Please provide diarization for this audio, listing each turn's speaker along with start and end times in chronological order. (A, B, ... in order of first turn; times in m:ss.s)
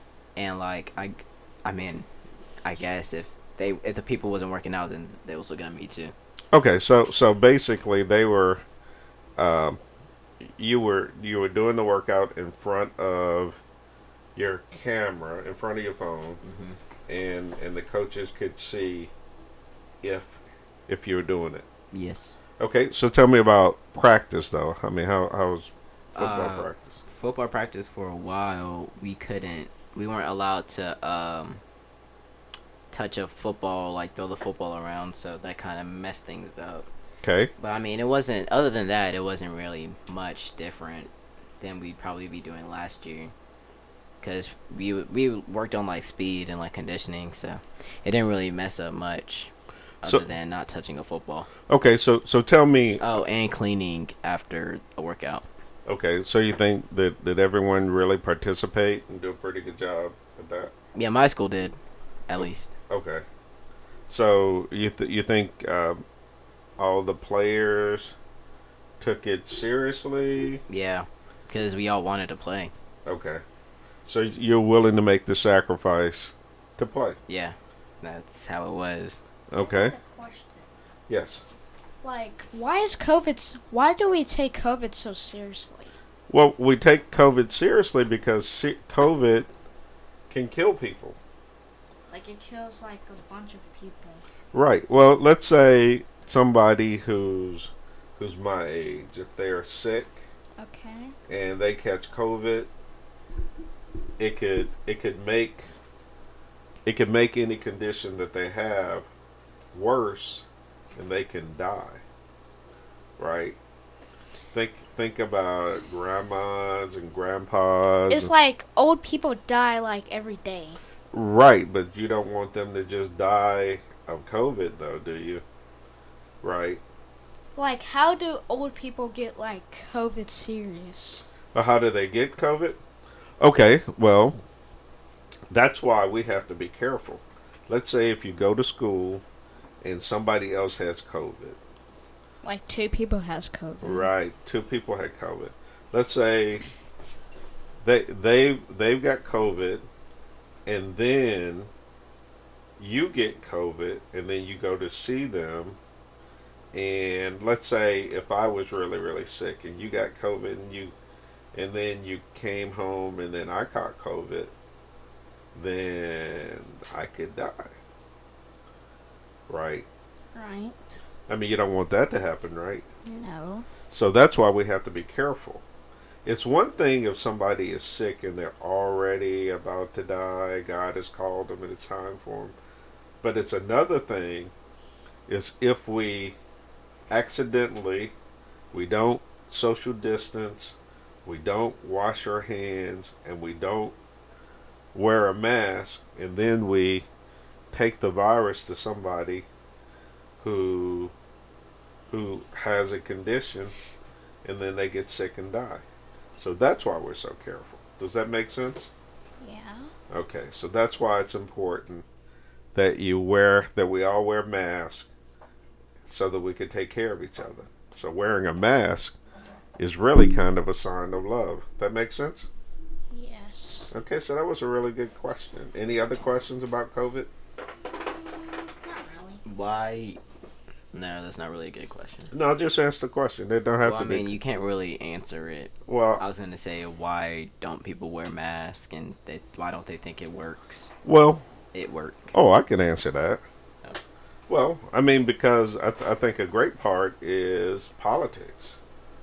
0:00.4-0:02.1 A
0:02.6-0:06.1 A
0:06.5-0:08.6 B
0:09.4-0:09.8 B
0:10.4-0:13.6 B
0:14.3-0:16.4 B
0:16.4-0:16.8 A
0:17.1-0:19.1 B
0:20.0-0:21.7 B
0:21.9-0:22.4 A
0:22.6-0:27.0 B
0:26.1-0:31.6 A
0:32.9-0:36.9 A
0:37.2-0:37.5 B
0:37.6-0:43.3 A
0:44.2-0:51.5 A
0:51.7-0:53.0 B
0:53.0-0:55.4 A
0:55.8-1:00.7 B
1:00.9-1:01.8 A
1:02.3-1:02.7 A
1:02.4-1:03.2 B
1:04.1-1:06.0 B
1:06.8-1:08.2 B
1:09.0-1:10.6 B
1:10.7-1:12.7 A
1:13.0-1:13.4 B
1:14.0-1:17.2 B
1:17.3-1:19.2 A
1:19.5-1:19.9 B
1:19.6-1:20.7 C
1:21.1-1:21.4 B
1:22.0-1:25.9 C
1:26.3-1:29.5 B
1:30.3-1:31.2 B
1:32.1-1:34.2 C
1:34.5-1:40.2 B
1:40.6-1:41.1 C
1:41.3-1:42.7 B
1:44.2-1:45.7 B
1:46.8-1:49.1 B
1:49.7-1:52.0 B
1:53.2-1:53.6 B
1:54.5-1:58.3 B
1:58.1-2:00.8 C
2:01.1-2:05.4 B
2:06.4-2:06.8 B
2:07.6-2:11.2 C
2:11.5-2:12.8 B
2:13.4-2:14.4 B
2:15.5-2:19.2 B
2:19.8-2:21.6 B
2:22.4-2:24.1 C
2:23.8-2:26.6 B
2:27.8-2:29.9 B
2:30.6-2:31.7 B
2:32.8-2:35.8 B
2:36.7-2:40.9 B
2:41.5-2:44.5 B
2:45.5-2:47.7 B
2:49.5-2:49.9 B
2:50.3-2:51.0 C
2:51.3-2:52.8 B
2:53.0-2:53.6 C
2:53.9-2:55.6 B
2:56.2-3:02.6 B
3:03.2-3:04.5 B
3:05.3-3:06.4 B
3:07.1-3:08.1 B
3:08.7-3:14.0 B
3:14.9-3:17.1 B
3:17.7-3:19.5 B
3:20.4-3:21.1 B
3:22.1-3:23.7 B
3:24.4-3:25.8 B
3:26.4-3:28.9 B
3:29.4-3:29.9 C
3:30.1-3:32.0 B
3:32.7-3:35.1 B
3:36.1-3:39.2 B
3:39.8-3:42.5 B
3:43.1-3:43.9 C
3:43.9-3:47.3 B
3:48.8-3:49.4 C
3:49.4-3:50.2 A
3:50.9-3:52.3 A
3:52.3-3:54.3 B
3:53.8-4:00.9 A
3:55.8-3:56.2 B
4:01.0-4:01.4 B
4:01.7-4:02.3 A
4:02.3-4:03.4 B
4:04.5-4:08.8 B